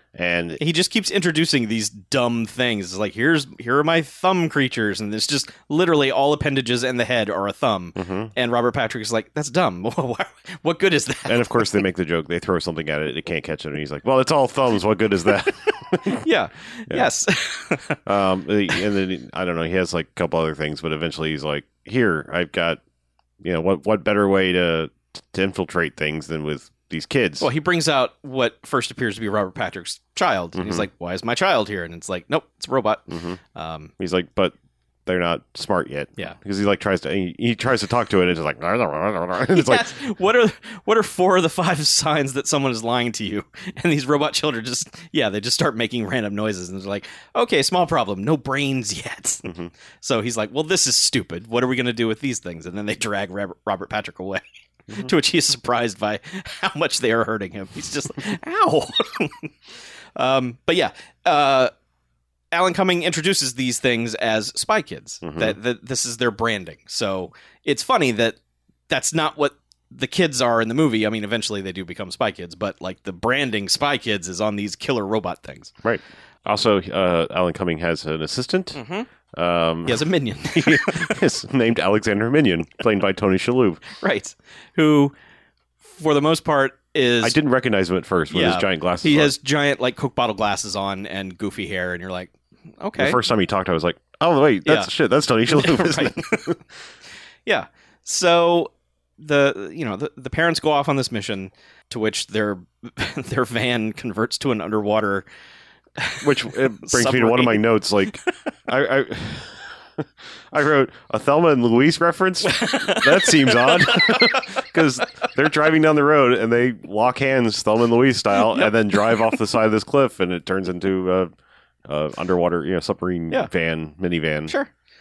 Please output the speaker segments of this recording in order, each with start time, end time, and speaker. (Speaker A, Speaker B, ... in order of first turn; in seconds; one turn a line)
Speaker A: 0.1-0.6
Speaker B: 0.6-11.8
Speaker A: 8.0-8.3
Speaker A: 11.3-16.3
Speaker B: 16.1-18.0
Speaker A: 18.1-22.8
Speaker A: 23.4-27.5
Speaker B: 27.4-33.9
Speaker A: 30.5-30.9
Speaker A: 33.1-33.4
Speaker A: 34.0-34.5
Speaker A: 35.0-39.9
Speaker B: 39.5-59.5
Speaker A: 49.4-49.7
Speaker B: 60.1-61.7
Speaker B: 62.5-75.7
Speaker A: 65.2-65.6
Speaker A: 75.8-78.8
Speaker B: 78.7-79.1
Speaker A: 79.3-83.8
Speaker B: 79.8-81.2
Speaker B: 84.0-85.1
Speaker B: 85.8-87.3
Speaker A: 87.2-89.3
Speaker B: 88.3-93.2
Speaker A: 93.0-96.6
Speaker B: 94.6-94.9
Speaker B: 95.5-96.6
Speaker B: 97.5-105.2
Speaker B: 106.0-108.3
Speaker A: 106.2-121.3
Speaker B: 112.5-114.7
Speaker B: 118.4-119.3
Speaker A: 121.8-124.5